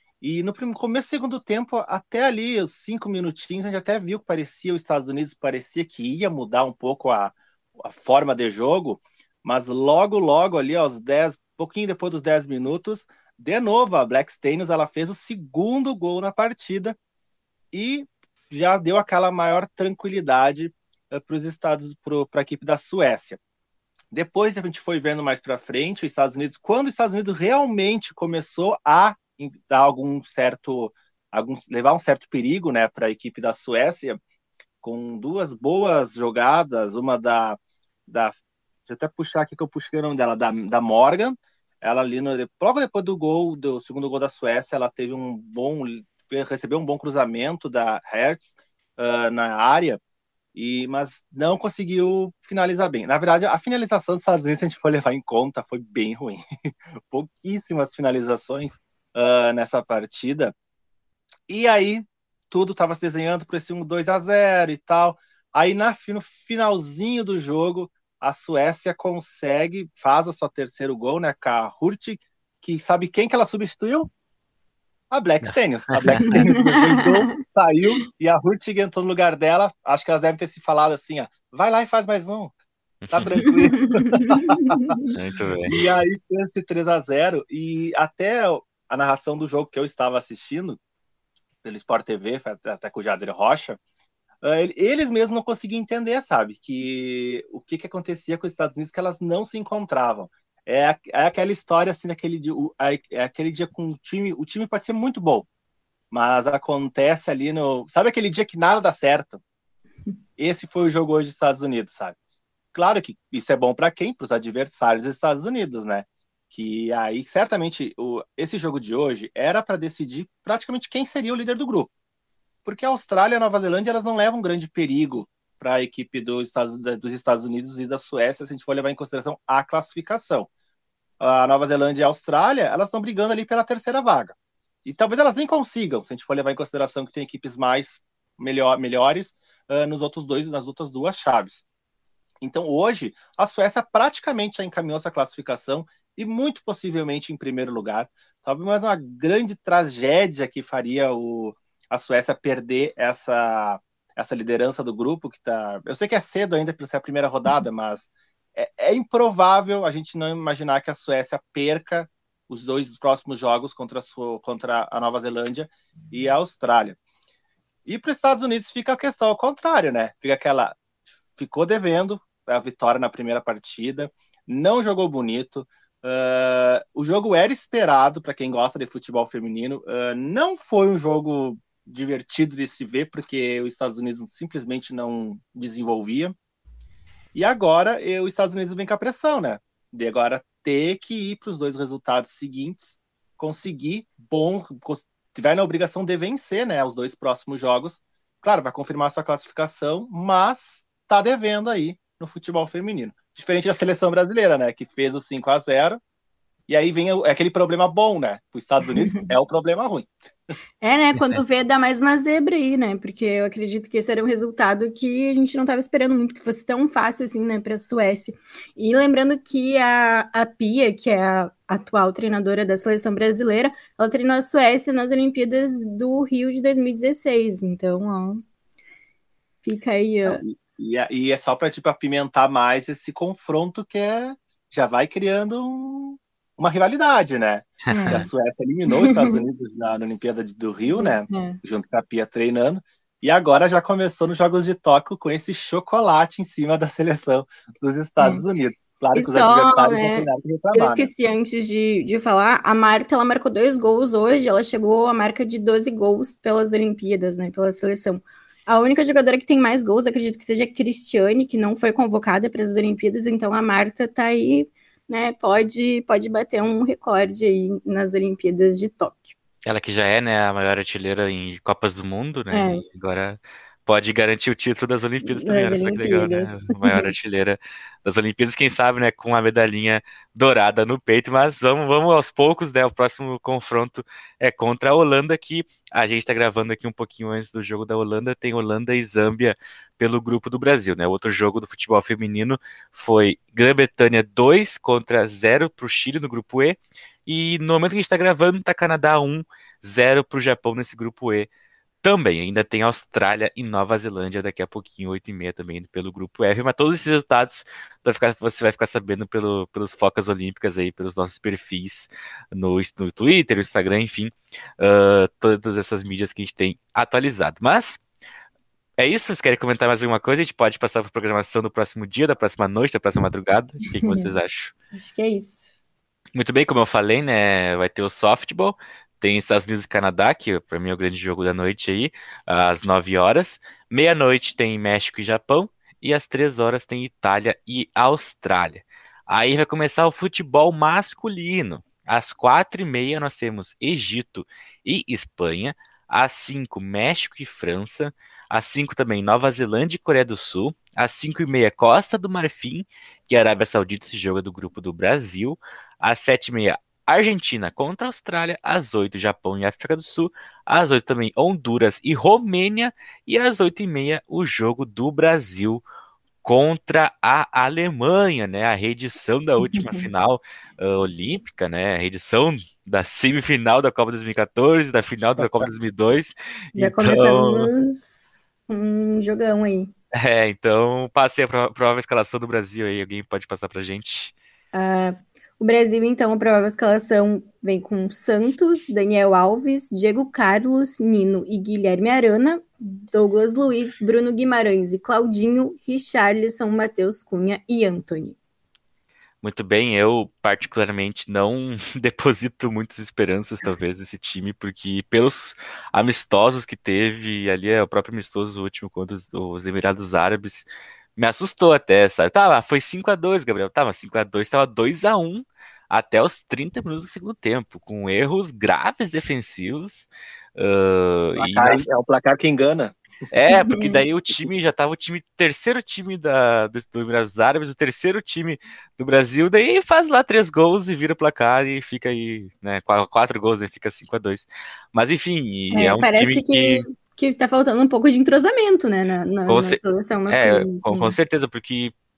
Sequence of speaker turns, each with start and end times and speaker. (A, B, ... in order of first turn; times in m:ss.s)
0:00.2-0:17.0 A
0:17.7-0:23.4 A
0:24.1-0:34.2 A
0:34.8-0:38.3 A
0:38.8-0:50.0 A
0:50.5-1:00.5 A
1:01.5-1:14.1 A
1:15.1-1:22.5 A
1:15.5-1:16.4 B
1:16.3-1:17.3 C
1:23.0-1:23.3 B
1:23.1-1:25.0 A
1:23.4-1:25.1 C
1:25.1-1:25.8 B
1:25.7-1:30.8 A
1:31.6-1:33.8 A
1:34.4-1:45.5 A
1:46.1-1:49.4 A
1:50.4-1:52.2 A
1:52.7-2:01.9 A
2:02.6-2:10.5 A
2:11.2-2:21.6 A
2:22.4-2:47.0 A
2:47.8-3:06.3 A
3:07.3-3:26.0 A
3:26.7-3:30.1 A
3:29.0-3:29.3 C
3:30.8-3:48.4 C
3:49.6-3:50.4 C
3:50.2-4:11.1 A
3:57.9-3:58.2 C
3:57.9-3:58.2 B
3:58.9-3:59.4 C
4:00.9-4:01.6 C
4:09.1-4:29.3 C
4:29.6-5:01.5 B
4:32.5-4:32.8 C
4:35.2-4:37.1 C
5:02.0-5:18.0 B
5:19.0-5:24.7 B
5:24.0-5:24.3 C
5:24.9-5:25.7 C
5:26.3-6:05.8 B
6:06.4-6:17.7 B
6:09.6-6:10.1 C
6:16.7-6:19.9 C
6:20.1-6:24.3 B
6:24.7-6:38.4 C
6:39.4-6:50.6 B
6:51.2-7:01.8 B
7:01.4-7:03.0 A
7:03.3-7:16.8 B
7:03.5-7:04.0 C
7:15.7-7:21.1 C
7:19.5-7:21.9 B